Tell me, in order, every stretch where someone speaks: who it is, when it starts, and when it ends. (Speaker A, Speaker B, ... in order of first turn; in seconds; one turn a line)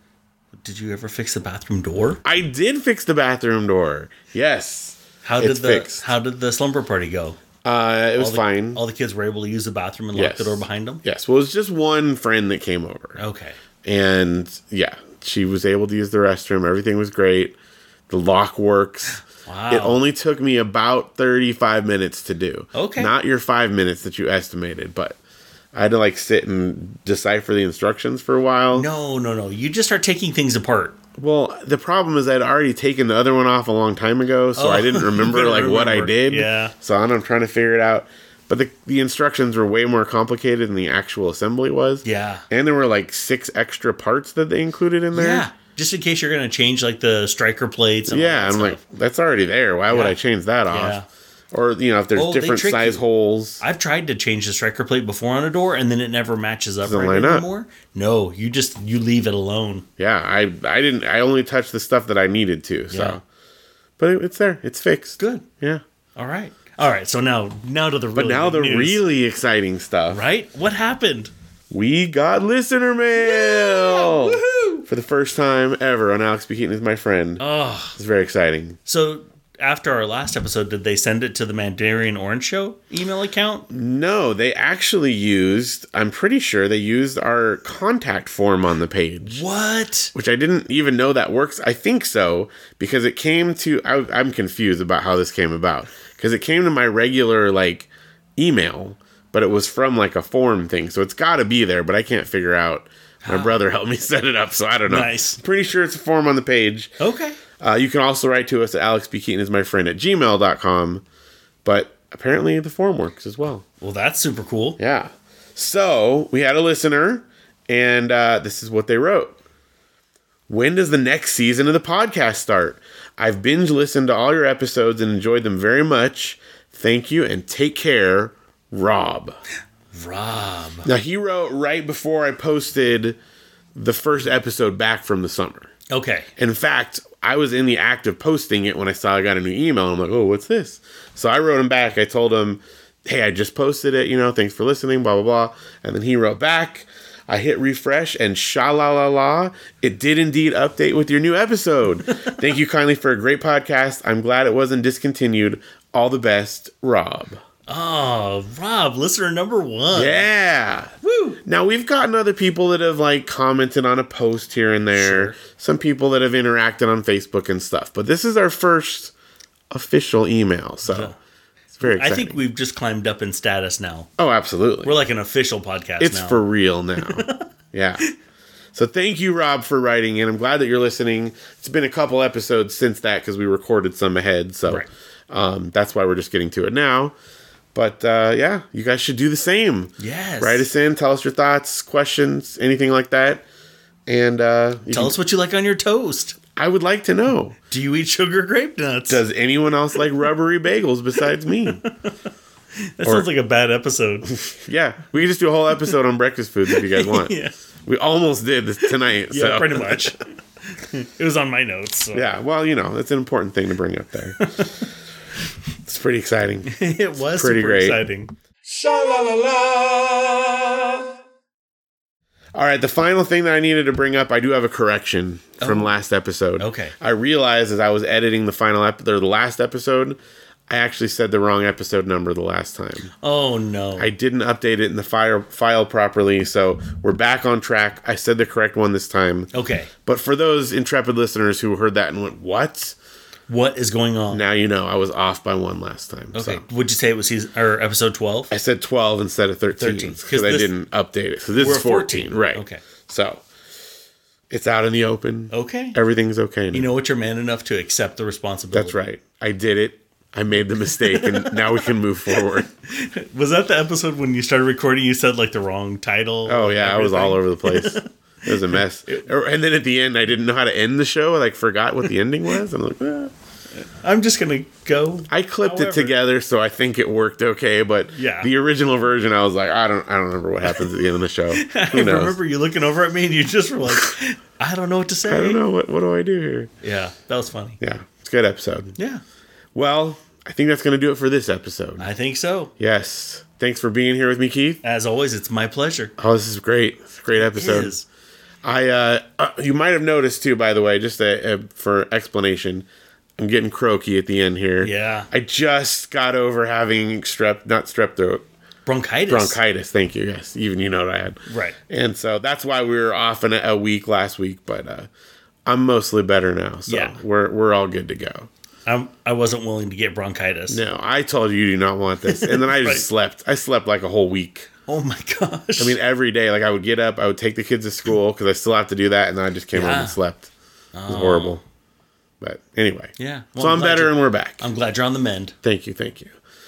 Speaker A: 0.6-2.2
Speaker B: 2.2-6.0
Speaker A: 5.2-7.4
Speaker B: 7.6-8.8
Speaker A: 8.2-11.0
Speaker B: 10.1-13.2
Speaker A: 13.2-13.6
Speaker B: 13.8-17.6
Speaker B: 18.1-25.2
Speaker A: 19.2-20.0
Speaker A: 22.8-23.1
Speaker B: 25.7-28.9
Speaker A: 28.7-31.0
Speaker B: 31.2-45.5
Speaker A: 34.6-36.7
Speaker A: 42.0-42.5
Speaker A: 45.1-48.8
Speaker B: 48.1-51.0
Speaker A: 49.9-50.2
Speaker A: 50.7-51.1
Speaker B: 51.5-53.6
Speaker A: 52.1-53.0
Speaker A: 53.6-59.9
Speaker B: 56.8-57.5
Speaker B: 60.0-63.2
Speaker A: 62.9-63.2
Speaker B: 64.0-65.8
Speaker A: 65.2-65.5
Speaker A: 66.2-69.0
Speaker B: 68.2-70.2
Speaker A: 70.1-71.3
Speaker B: 71.7-77.4
Speaker A: 73.2-74.9
Speaker A: 77.4-78.0
Speaker B: 78.0-78.8
Speaker A: 78.9-83.7
Speaker B: 83.7-89.5
Speaker A: 89.3-90.1
Speaker B: 90.2-107.0
Speaker A: 103.2-103.6
Speaker A: 104.9-105.4
Speaker A: 107.0-107.4
Speaker B: 107.6-111.0
Speaker B: 111.6-113.7
Speaker A: 113.8-114.8
Speaker B: 114.8-119.4
Speaker B: 120.5-129.4
Speaker A: 129.9-130.9
Speaker B: 130.8-133.2
Speaker B: 133.8-135.7
Speaker A: 135.9-136.3
Speaker B: 136.4-157.4
Speaker A: 157.7-160.3
Speaker B: 159.9-169.1
Speaker A: 161.0-161.4
Speaker A: 164.9-165.4
Speaker B: 169.7-171.1
Speaker A: 170.8-171.2
Speaker B: 171.8-172.4
Speaker A: 171.8-174.1
Speaker B: 174.2-174.9
Speaker A: 174.8-176.4
Speaker B: 176.0-178.0
Speaker A: 177.0-177.5
Speaker B: 178.7-187.1
Speaker B: 187.7-193.4
Speaker A: 190.0-190.7
Speaker B: 194.1-195.2
Speaker A: 194.9-196.4
Speaker B: 196.6-197.6
Speaker A: 197.7-199.2
Speaker B: 199.1-201.8
Speaker A: 201.8-202.3
Speaker A: 203.0-204.3
Speaker B: 204.3-207.3
Speaker A: 206.7-207.5
Speaker B: 207.9-210.2
Speaker A: 209.3-212.3
Speaker B: 212.1-214.7
Speaker A: 214.4-214.7
Speaker B: 215.8-216.8
Speaker A: 216.7-218.3
Speaker B: 217.4-218.0
Speaker C: 218.7-221.1
Speaker B: 222.6-230.2
Speaker A: 225.6-225.9
Speaker A: 226.6-227.0
Speaker B: 230.7-233.1
Speaker A: 233.2-234.1
Speaker B: 234.0-239.5
Speaker A: 239.5-239.9
Speaker B: 240.0-243.0
Speaker A: 243.5-244.4
Speaker B: 244.3-246.6
Speaker A: 246.3-248.5
Speaker B: 248.5-253.4
Speaker A: 249.8-250.7
Speaker A: 251.6-252.8
Speaker B: 254.5-256.9
Speaker A: 255.5-256.0
Speaker A: 256.7-259.1
Speaker B: 258.7-262.7
Speaker A: 261.0-269.3
Speaker B: 266.5-273.3
Speaker A: 273.8-276.2
Speaker B: 275.3-282.4
Speaker A: 278.1-278.5
Speaker A: 281.5-285.6
Speaker B: 285.2-286.7
Speaker A: 286.8-287.8
Speaker B: 287.8-288.9
Speaker A: 289.0-289.2
Speaker B: 289.8-292.1
Speaker A: 292.0-292.7
Speaker B: 292.8-294.8
Speaker A: 294.8-296.1
Speaker B: 296.2-297.9
Speaker A: 297.3-298.1
Speaker B: 298.6-302.9
Speaker B: 303.4-308.4
Speaker A: 304.8-305.3
Speaker A: 308.9-309.6
Speaker B: 309.3-315.1
Speaker A: 311.5-311.8
Speaker B: 315.7-318.5
Speaker A: 316.9-317.2
Speaker A: 318.9-320.8
Speaker B: 320.7-324.7
Speaker A: 322.2-323.1
Speaker A: 324.9-326.0
Speaker B: 325.8-330.5
Speaker A: 329.7-330.2
Speaker A: 330.9-331.6
Speaker B: 331.1-331.6
Speaker B: 332.4-334.6
Speaker A: 333.2-335.6
Speaker B: 335.6-336.3